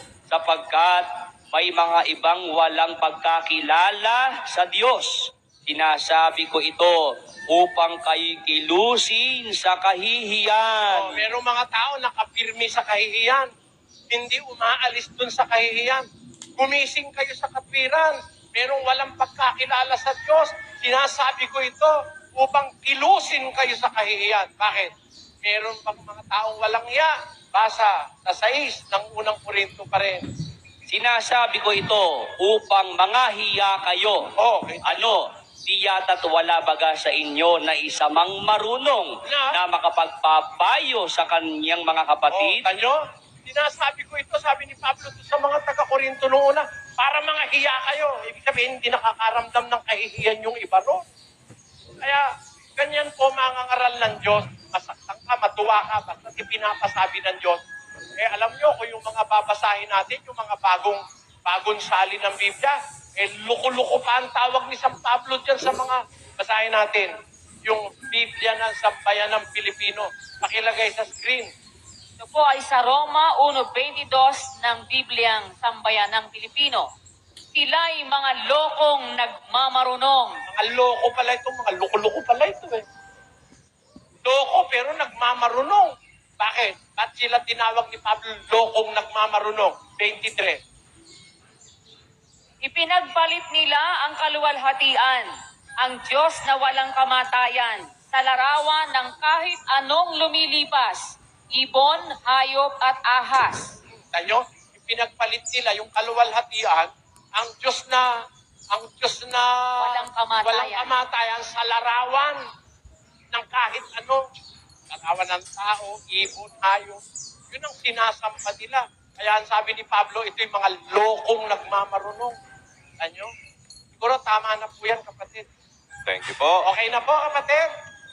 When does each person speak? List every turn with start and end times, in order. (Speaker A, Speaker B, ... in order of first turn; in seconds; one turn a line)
Speaker A: 0.3-11.2
Speaker B: 10.9-13.5
Speaker B: 14.1-16.0
Speaker B: 16.6-24.9
Speaker B: 25.4-30.2
Speaker A: 30.9-34.2
Speaker B: 34.4-35.2
Speaker A: 34.8-42.6
Speaker B: 39.3-39.5
Speaker B: 42.3-51.0
Speaker B: 52.8-57.6
Speaker B: 58.2-67.1
Speaker B: 67.6-71.5
Speaker C: 72.2-76.9
Speaker C: 77.5-80.4
Speaker B: 80.5-82.8
Speaker B: 84.2-90.6
Speaker C: 92.6-95.3
Speaker C: 95.8-103.8
Speaker B: 103.9-108.1
Speaker B: 108.7-112.4
Speaker C: 109.8-110.9
Speaker B: 113.3-114.2
Speaker B: 114.9-122.3
Speaker B: 123.0-123.3
Speaker B: 123.9-125.5
Speaker A: 126.1-126.6
Speaker B: 126.6-127.7